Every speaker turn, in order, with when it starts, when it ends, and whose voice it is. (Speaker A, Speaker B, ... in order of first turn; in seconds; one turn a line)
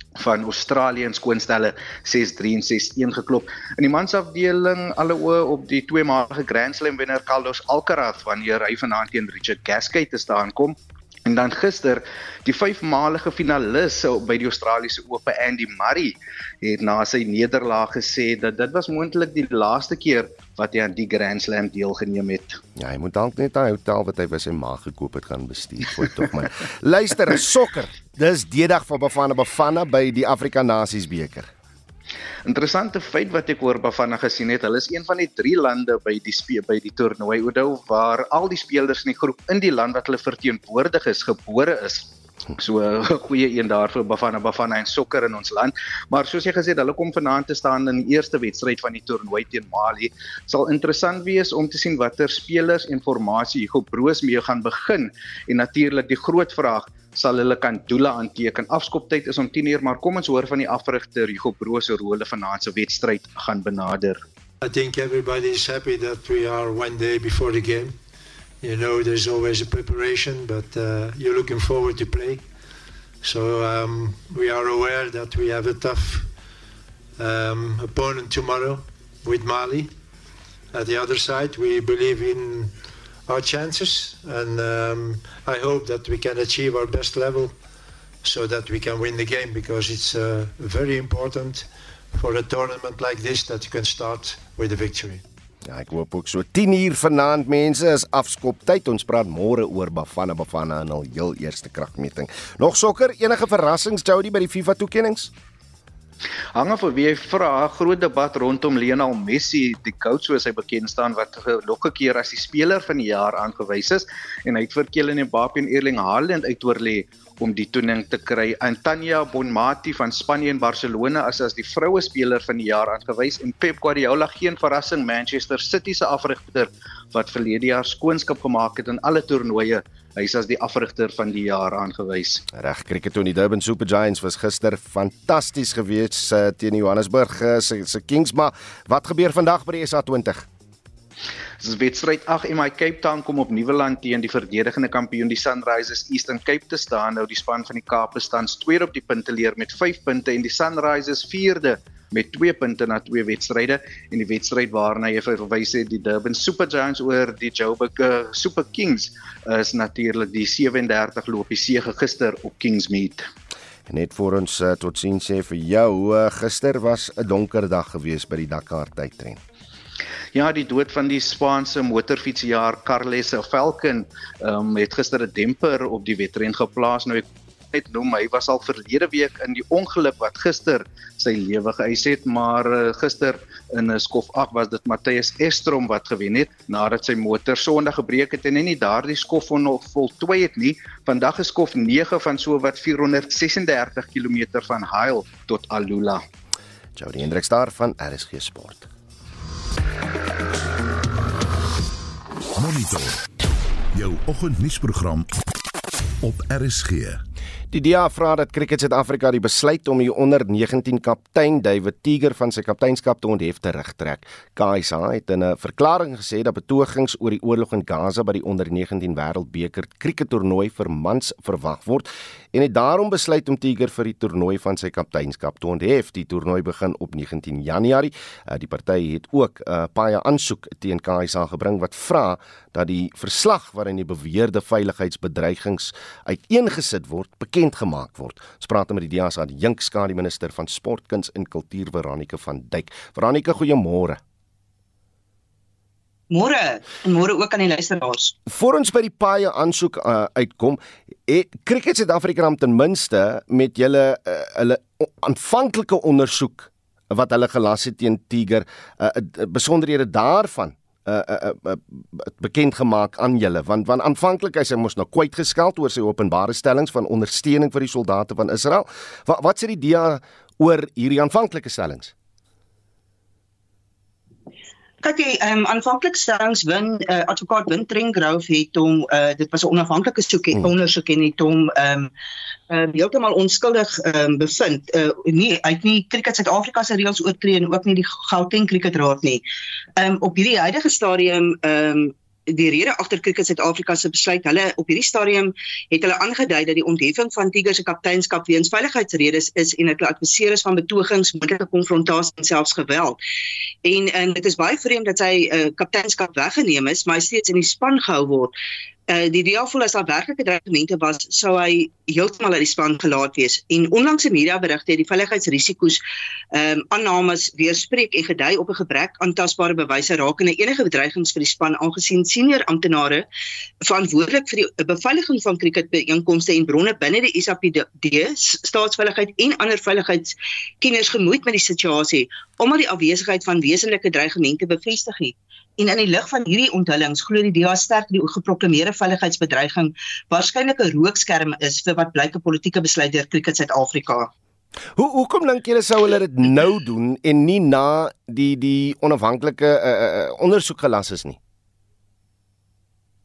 Speaker A: 0.2-22.6
Speaker B: 22.8-31.5
Speaker A: 32.5-64.2
Speaker C: 64.6-68.0
Speaker C: 68.6-72.5
Speaker C: 73.2-76.3
Speaker C: 77.2-79.9
Speaker C: 80.7-82.7
Speaker C: 83.2-87.5
Speaker C: 88.2-95.2
Speaker B: 95.6-105.3
Speaker A: 106.5-132.4
Speaker B: 132.5-140.5
Speaker A: 141.6-163.2
Speaker B: 163.9-169.4
Speaker A: 170.3-196.2
Speaker B: 196.9-198.9
Speaker D: 202.6-203.2
Speaker D: 203.9-205.3
Speaker D: 206.2-207.2
Speaker B: 207.7-244.2
Speaker E: 246.3-248.3
Speaker B: 248.4-272.1
Speaker E: 275.0-282.1
Speaker E: 282.7-289.4
Speaker E: 290.0-303.2
Speaker E: 303.8-308.6
Speaker E: 309.1-316.0
Speaker E: 316.5-323.2
Speaker E: 323.8-344.3
Speaker B: 344.9-351.4